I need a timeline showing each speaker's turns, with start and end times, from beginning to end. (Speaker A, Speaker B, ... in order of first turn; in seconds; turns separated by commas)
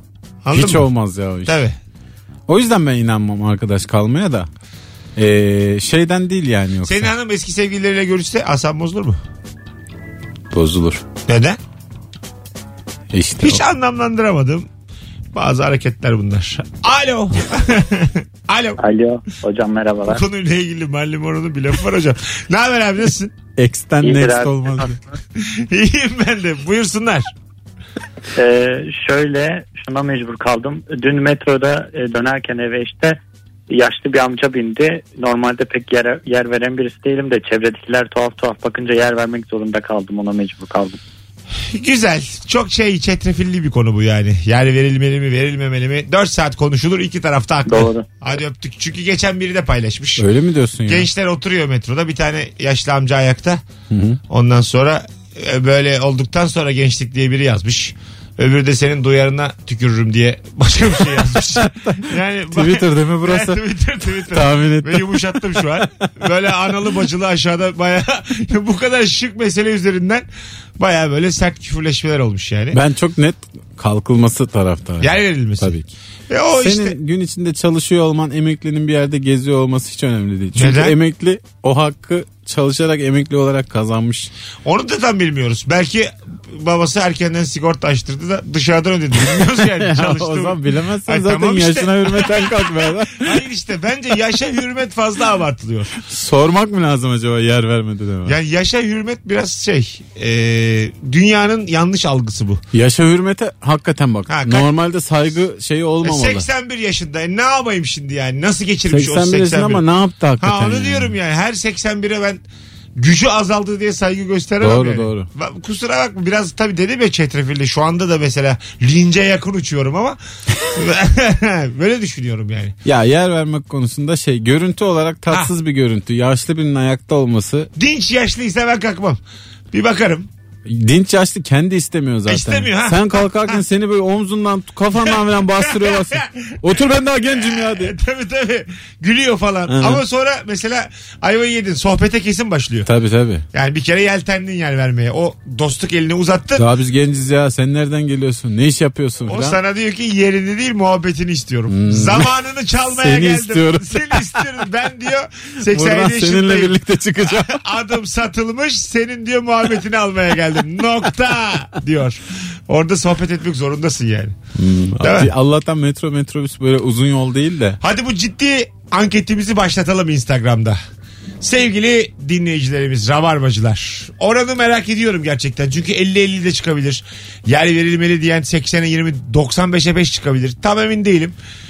Speaker A: 0.4-0.9, Speaker B: 0.5-1.6, Speaker A: 1.4-1.8, Speaker B: 2.5-4.5, Speaker B: 5.2-7.1, Speaker A: 6.8-9.2, Speaker B: 10.5-11.0, Speaker A: 11.2-11.6, Speaker B: 13.1-13.6, Speaker A: 13.4-14.7, Speaker A: 15.3-18.8, Speaker C: 18.8-20.2, Speaker A: 20.1-23.3, Speaker B: 23.6-25.0, Speaker C: 24.0-24.6, Speaker A: 25.4-27.3, Speaker C: 28.4-33.2, Speaker C: 33.7-41.0, Speaker A: 41.7-50.3, Speaker C: 47.6-48.0, Speaker B: 50.2-51.1, Speaker A: 50.9-53.6, Speaker B: 53.9-54.2, Speaker A: 54.3-70.2, Speaker B: 61.3-63.6, Speaker B: 64.3-65.6, Speaker A: 70.8-72.8, Speaker B: 72.7-75.9, Speaker A: 75.0-75.7, Speaker A: 76.3-77.0, Speaker B: 76.6-84.3, Speaker A: 80.5-81.0, Speaker A: 84.6-95.9, Speaker B: 89.3-93.4, Speaker B: 96.0-98.3, Speaker A: 98.2-102.6, Speaker B: 102.7-106.5, Speaker A: 104.3-104.7, Speaker A: 106.0-109.8, Speaker B: 108.9-111.1, Speaker A: 110.4-112.4, Speaker A: 113.0-122.7, Speaker B: 114.6-115.3, Speaker B: 122.8-127.7, Speaker A: 127.8-129.2, Speaker A: 129.7-130.3, Speaker B: 130.6-137.9, Speaker A: 132.3-133.6, Speaker A: 135.0-142.9, Speaker B: 139.7-140.0, Speaker B: 142.8-143.4, Speaker A: 143.5-146.7, Speaker B: 146.6-149.6, Speaker A: 149.3-164.3, Speaker B: 151.7-152.3, Speaker B: 152.9-154.4, Speaker B: 155.7-157.6, Speaker B: 164.6-167.8, Speaker A: 165.0-165.3, Speaker A: 167.8-170.8, Speaker A: 171.4-181.4